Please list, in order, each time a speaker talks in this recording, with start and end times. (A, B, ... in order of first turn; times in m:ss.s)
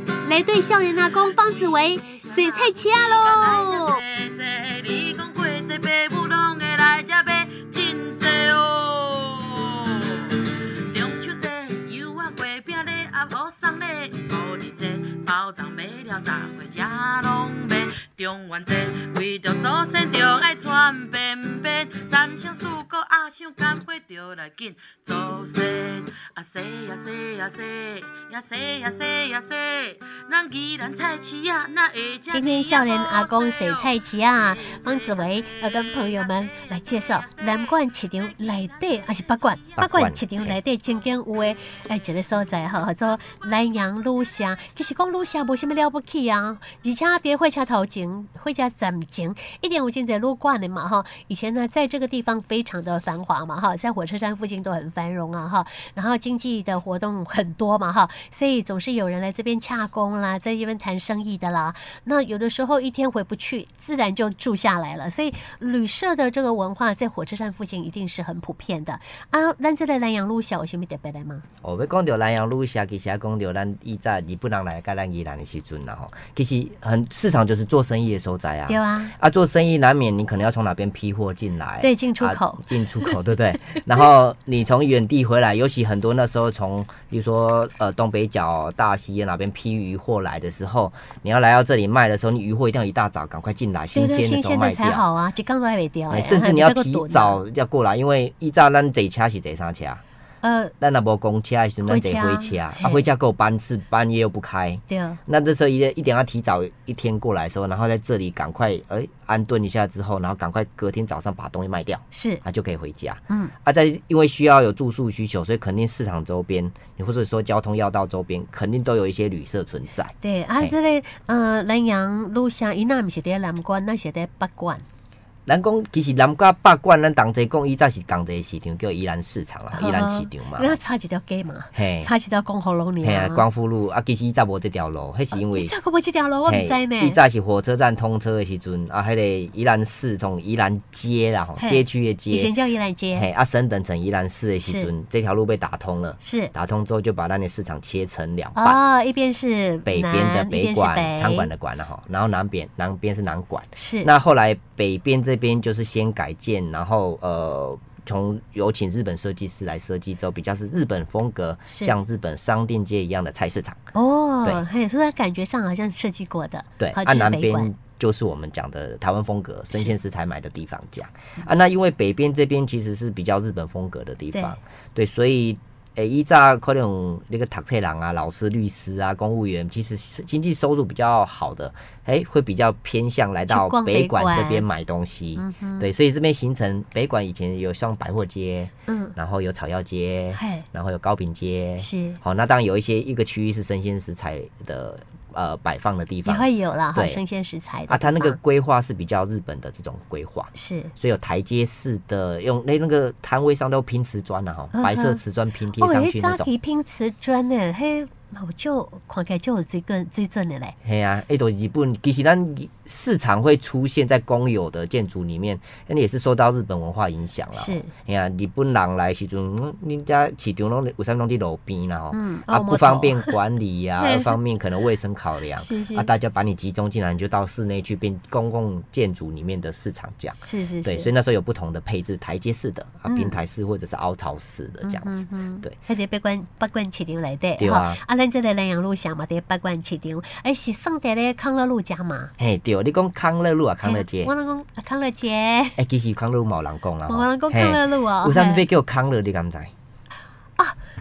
0:00.2-0:04.0 A
0:01.3-0:33.9 B
0:32.3-1:11.4 A
0:34.9-0:35.3 B
0:39.8-0:40.6 C
1:11.6-1:35.0 C
1:18.7-1:19.1 A
1:21.8-1:23.2 A
1:33.9-1:37.4 A
1:36.1-1:40.0 C
1:40.4-1:40.7 A
1:40.8-2:00.7 C
1:41.8-1:43.1 A
1:44.9-1:45.2 A
1:52.1-1:52.4 A
1:53.3-1:53.5 A
2:00.2-2:04.8 A
2:05.4-2:10.8 C
2:09.7-2:13.4 A
2:11.7-2:12.1 C
2:13.0-2:15.7 C
2:15.3-2:17.2 A
2:16.4-2:22.5 C
2:21.6-2:23.3 A
2:23.1-2:28.8 C
2:24.6-2:24.9 A
2:26.2-2:26.5 A
2:28.6-2:31.5 A
2:29.8-2:43.8 C
2:33.8-2:34.1 A
2:41.7-2:41.9 A
2:43.9-2:47.7 A
2:46.8-3:17.2 C
3:03.5-3:04.6 A
3:05.4-3:05.9 A
3:08.9-3:09.1 A
3:10.3-3:10.6 A
3:11.8-3:12.2 A
3:16.2-3:18.4 A
3:17.9-3:26.5 C
3:20.5-3:20.9 A
3:24.7-3:25.2 A
3:25.8-3:30.8 A
3:30.8-3:55.8 C
3:37.5-3:37.9 A
3:42.1-3:43.3 A
3:44.0-3:44.4 A
3:45.6-3:46.1 A
3:50.4-3:51.1 A
3:53.1-3:53.4 A
3:54.8-4:02.3 A
3:57.6-3:58.0 C
4:02.4-4:04.3 C
4:03.8-4:05.8 A
4:05.8-4:09.7 C
4:07.1-4:08.6 A